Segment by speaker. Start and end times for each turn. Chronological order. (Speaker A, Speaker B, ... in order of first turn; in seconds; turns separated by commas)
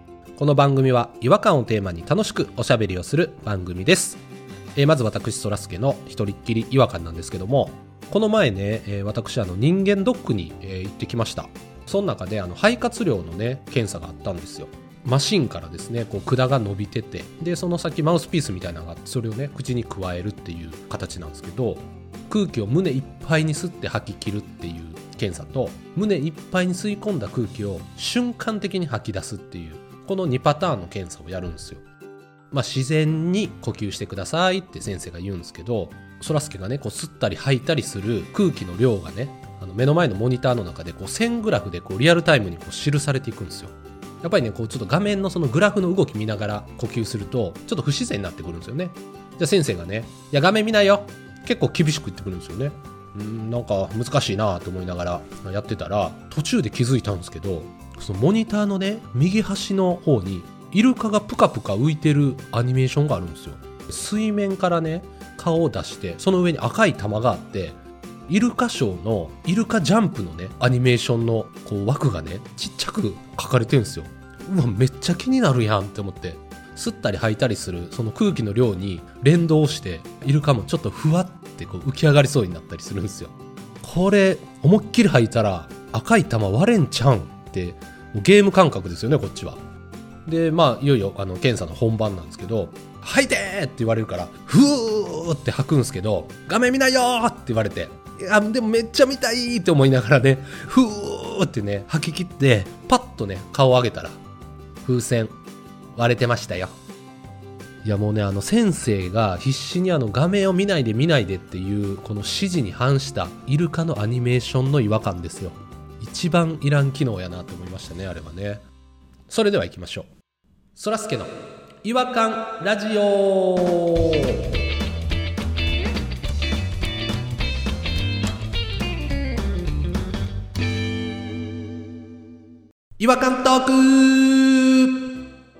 Speaker A: 0.4-4.2, Speaker A: 4.8-31.8, Speaker A: 32.5-89.6, Speaker A: 90.3-104.2, Speaker A: 104.8-105.3, Speaker A: 106.0-106.8, Speaker A: 107.8-118.6, Speaker A: 119.3-120.1, Speaker A: 120.8-124.4, Speaker A: 133.0-135.1